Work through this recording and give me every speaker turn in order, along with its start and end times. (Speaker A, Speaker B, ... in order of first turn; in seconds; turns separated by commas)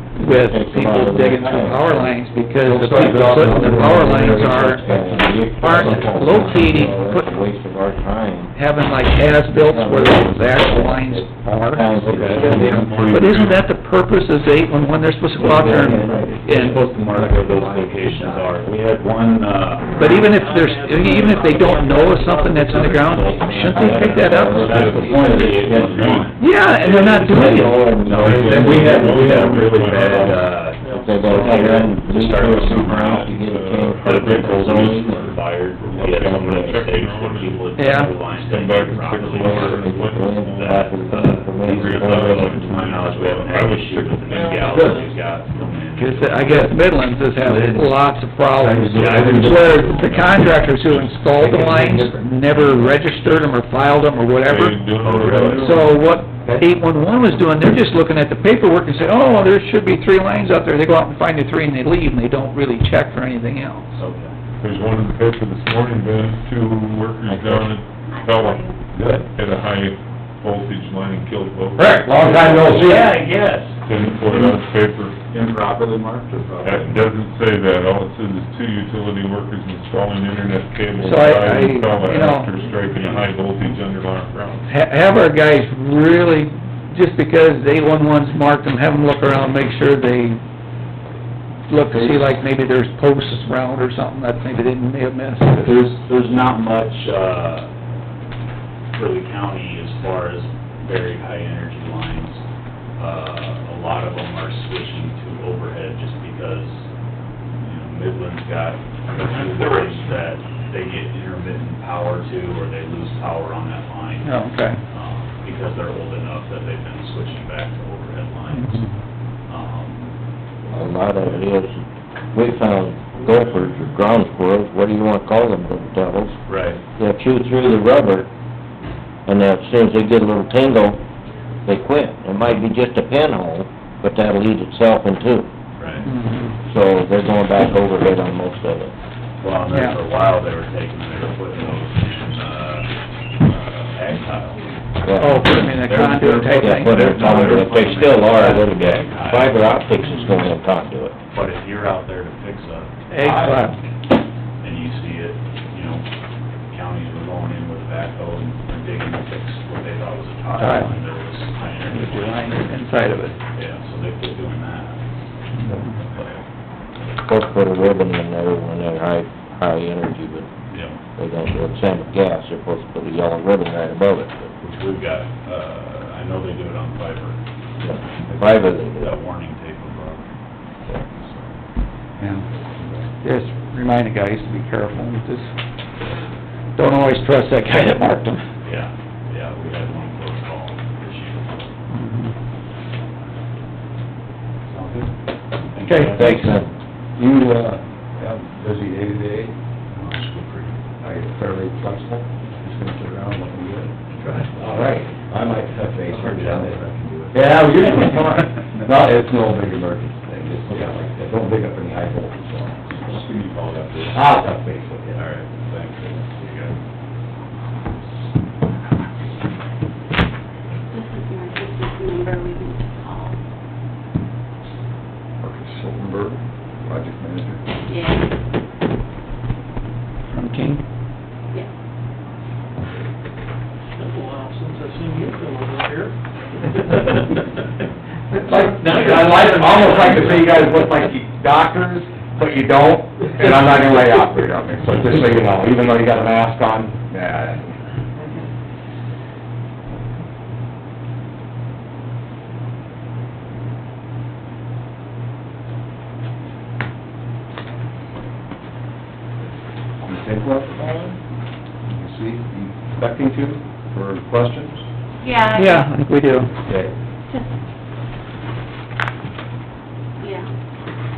Speaker A: 0.1-4.9, Speaker B: 0.2-2.2, Speaker C: 2.6-6.9, Speaker B: 3.0-8.5, Speaker A: 5.6-7.3, Speaker A: 8.5-16.8, Speaker B: 9.5-13.2, Speaker D: 12.0-12.5, Speaker E: 12.1-13.6, Speaker B: 15.4-16.4, Speaker D: 15.4-20.0, Speaker C: 16.6-18.4, Speaker A: 19.9-25.6, Speaker F: 20.0-24.2, Speaker D: 23.1-33.3, Speaker B: 23.7-26.0, Speaker E: 24.5-26.3, Speaker A: 26.4-27.9, Speaker B: 27.0-29.6, Speaker E: 28.0-30.6, Speaker F: 30.8-32.2, Speaker B: 30.9-35.2, Speaker E: 31.5-40.9, Speaker D: 34.0-39.8, Speaker A: 37.8-38.1, Speaker B: 39.4-42.6, Speaker D: 40.4-47.0, Speaker E: 41.6-44.8, Speaker F: 44.4-45.1, Speaker A: 46.0-54.8, Speaker C: 47.5-47.8, Speaker C: 48.6-49.7, Speaker D: 48.8-51.5, Speaker C: 51.4-52.2, Speaker D: 52.5-53.5, Speaker E: 54.4-55.9, Speaker D: 55.0-55.8, Speaker A: 55.5-63.9, Speaker D: 63.9-64.3, Speaker E: 64.6-68.7, Speaker G: 68.1-68.8, Speaker D: 68.9-69.2, Speaker E: 69.3-73.0, Speaker C: 71.8-73.2, Speaker D: 72.3-74.5, Speaker E: 73.8-75.2, Speaker D: 75.3-77.0, Speaker E: 76.6-84.7, Speaker A: 81.0-82.5, Speaker A: 84.6-90.4, Speaker A: 91.7-95.8, Speaker D: 95.5-97.7, Speaker D: 98.9-102.4, Speaker D: 103.0-106.8, Speaker D: 107.5-118.8, Speaker A: 114.2-114.8, Speaker A: 118.5-118.8, Speaker D: 119.5-120.1, Speaker B: 120.7-121.8, Speaker B: 122.3-126.4, Speaker D: 126.5-126.8, Speaker B: 127.0-128.3, Speaker B: 129.2-131.0, Speaker B: 131.6-135.5, Speaker D: 135.8-136.1, Speaker A: 136.0-136.6, Speaker B: 136.7-138.9, Speaker D: 139.4-144.7, Speaker A: 139.7-140.0, Speaker B: 145.0-151.2, Speaker A: 145.2-147.7, Speaker D: 145.7-149.6, Speaker D: 151.3-153.7, Speaker A: 153.1-153.8, Speaker D: 154.6-156.0, Speaker D: 156.7-162.6, Speaker A: 160.6-160.9, Speaker A: 161.9-163.3, Speaker D: 163.5-165.0, Speaker C: 165.6-166.0, Speaker D: 166.1-166.4, Speaker B: 167.2-170.5, Speaker D: 170.7-171.0, Speaker B: 171.2-174.5, Speaker D: 174.6-177.4, Speaker B: 177.8-179.2, Speaker D: 178.2-180.2, Speaker D: 181.0-181.4, Speaker C: 182.2-182.9, Speaker A: 183.2-185.5, Speaker A: 186.8-188.4, Speaker D: 188.6-191.7, Speaker A: 191.9-192.3, Speaker C: 194.7-195.1, Speaker D: 195.7-196.6, Speaker A: 195.8-196.3, Speaker B: 196.1-196.7, Speaker C: 197.2-199.5, Speaker D: 200.0-200.8, Speaker C: 201.0-213.2, Speaker D: 206.1-208.4, Speaker D: 210.7-211.0, Speaker D: 212.9-214.2, Speaker C: 214.1-215.3, Speaker D: 215.1-216.8, Speaker G: 220.9-223.4, Speaker C: 225.4-227.6, Speaker G: 227.9-228.2, Speaker A: 230.3-230.8, Speaker F: 234.0-236.1, Speaker F: 236.9-237.2, Speaker C: 238.3-247.7, Speaker F: 238.5-240.6, Speaker C: 260.0-261.2, Speaker C: 261.9-264.8, Speaker G: 265.2-265.9, Speaker A: 265.5-266.5, Speaker C: 266.6-266.9, Speaker G: 270.2-270.5